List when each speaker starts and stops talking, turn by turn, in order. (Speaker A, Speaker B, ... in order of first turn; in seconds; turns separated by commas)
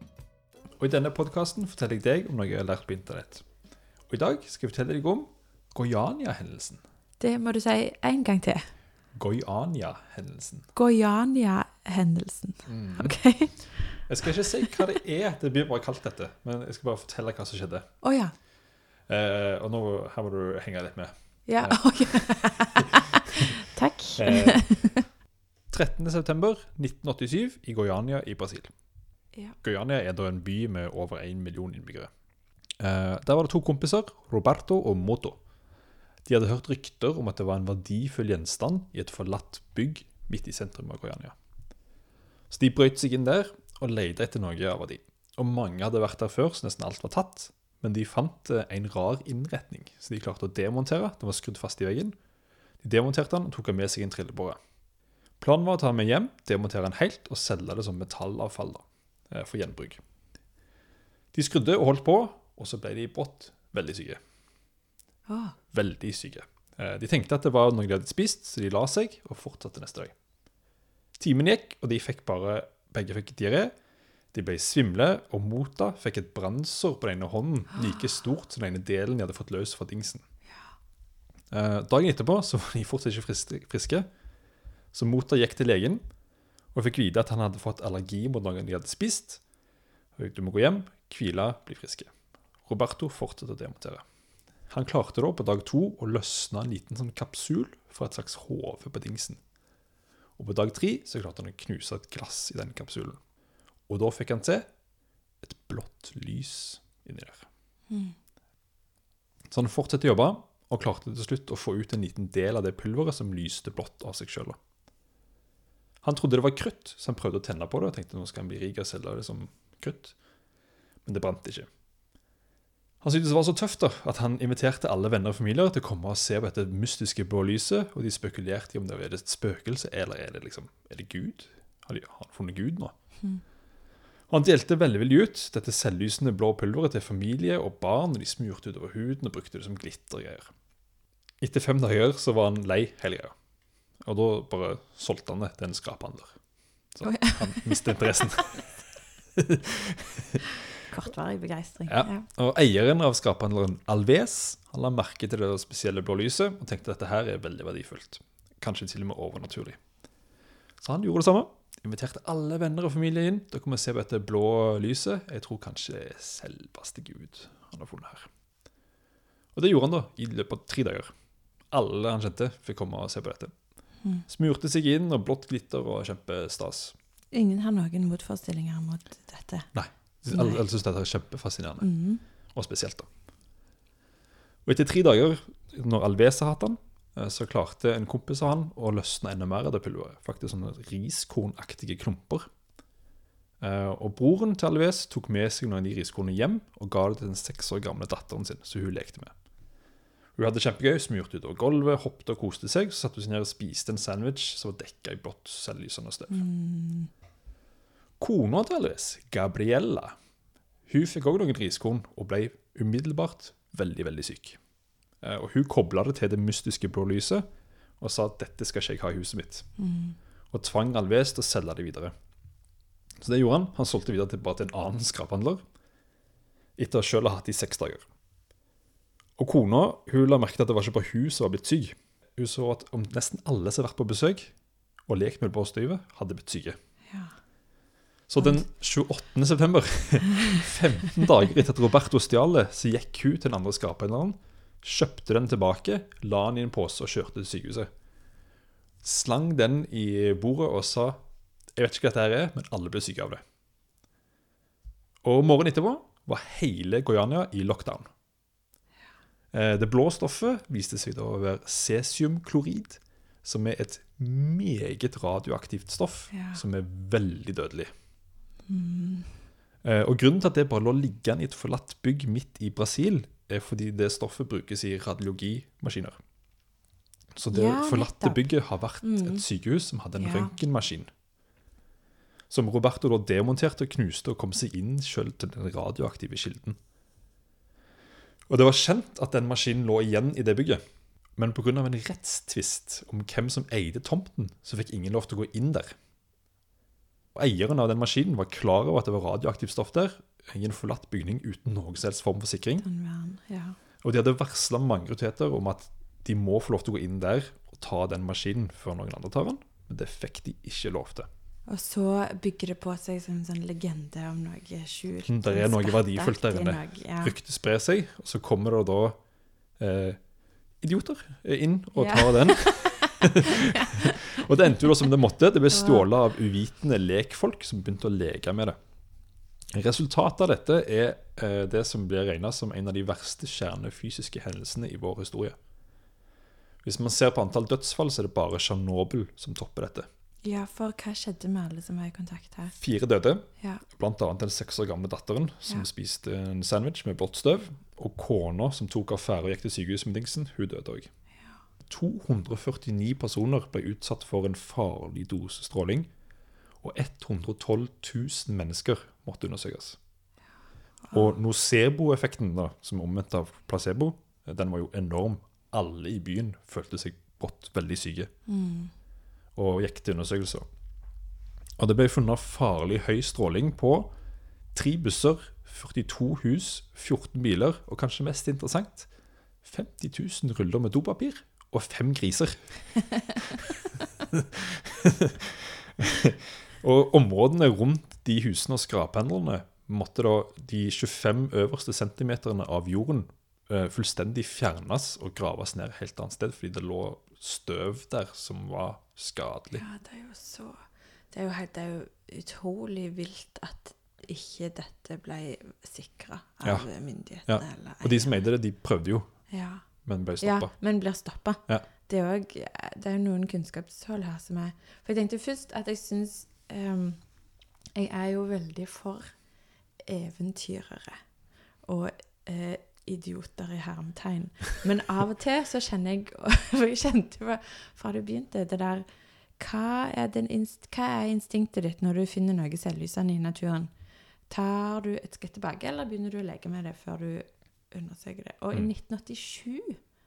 Speaker A: 0.8-3.4, Speaker A: 4.1-6.8, Speaker B: 7.2-8.7, Speaker A: 9.1-10.7, Speaker B: 10.7-14.1, Speaker A: 12.7-17.9, Speaker B: 18.0-18.3, Speaker A: 19.1-22.7, Speaker B: 21.4-25.0, Speaker A: 24.1-24.9, Speaker A: 25.7-28.7, Speaker A: 29.6-32.1, Speaker A: 32.8-35.4, Speaker A: 36.2-41.4, Speaker A: 42.5-52.1, Speaker A: 52.8-54.6, Speaker A: 55.4-60.0, Speaker A: 61.3-64.2, Speaker B: 65.3-65.5, Speaker A: 65.7-70.1, Speaker A: 71.2-73.7, Speaker A: 74.3-80.2, Speaker A: 81.5-84.1, Speaker A: 84.9-86.0, Speaker A: 86.7-89.4, Speaker A: 90.2-92.1, Speaker A: 92.6-94.0, Speaker A: 94.7-99.4, Speaker A: 100.4-103.2, Speaker A: 103.9-104.7, Speaker A: 105.4-107.5, Speaker B: 107.9-108.1, Speaker A: 109.5-114.6, Speaker A: 116.0-120.2, Speaker A: 121.0-121.7, Speaker A: 123.0-132.9, Speaker A: 134.3-140.5, Speaker A: 141.4-143.3, Speaker A: 144.0-146.4, Speaker A: 146.9-148.8, Speaker B: 147.0-148.0, Speaker A: 149.4-150.4, Speaker B: 150.9-152.2, Speaker A: 151.8-159.8, Speaker A: 160.8-168.3, Speaker A: 169.5-171.1, Speaker A: 171.7-173.5, Speaker A: 174.2-176.9, Speaker B: 177.3-179.7, Speaker A: 179.7-181.9, Speaker B: 180.3-180.6, Speaker B: 181.8-182.2, Speaker A: 182.4-183.1, Speaker A: 184.6-192.5, Speaker A: 193.6-199.3, Speaker A: 200.3-206.5, Speaker B: 206.3-207.1, Speaker A: 208.2-210.1, Speaker A: 210.8-214.6, Speaker A: 215.2-217.4, Speaker A: 218.0-219.7, Speaker B: 219.8-220.2, Speaker A: 220.5-222.1, Speaker A: 223.2-225.6, Speaker A: 226.8-228.0, Speaker A: 229.4-234.5, Speaker A: 235.1-236.8, Speaker B: 237.1-237.3, Speaker A: 238.3-247.9, Speaker A: 249.0-251.2, Speaker A: 251.7-253.4, Speaker A: 255.2-258.1, Speaker A: 259.5-267.9, Speaker B: 266.3-266.6, Speaker B: 268.7-269.4, Speaker A: 269.8-276.2, Speaker A: 277.3-281.1, Speaker B: 277.5-279.4, Speaker B: 280.2-280.5, Speaker A: 282.5-286.8, Speaker A: 288.5-290.8, Speaker A: 291.4-295.9, Speaker A: 297.3-302.9, Speaker B: 302.8-303.8, Speaker A: 304.0-311.3, Speaker B: 311.7-317.4, Speaker A: 315.2-319.2, Speaker A: 319.7-323.4, Speaker B: 321.9-324.1, Speaker A: 324.3-328.8, Speaker B: 325.7-326.1, Speaker A: 329.7-335.6, Speaker A: 336.8-340.1, Speaker B: 340.4-342.8, Speaker A: 342.8-351.1, Speaker A: 351.8-356.1, Speaker A: 356.8-360.0, Speaker A: 361.1-368.3, Speaker B: 368.5-368.9, Speaker A: 369.5-370.6, Speaker A: 371.8-374.1, Speaker A: 374.7-379.1, Speaker A: 379.6-383.6, Speaker A: 384.3-399.8, Speaker B: 399.7-400.8, Speaker B: 401.3-408.4, Speaker A: 406.6-406.9, Speaker A: 407.4-409.3, Speaker B: 409.5-409.8, Speaker A: 410.0-410.8, Speaker B: 410.4-417.4, Speaker B: 417.9-421.2, Speaker B: 421.8-429.1, Speaker B: 429.6-433.9, Speaker B: 434.5-440.0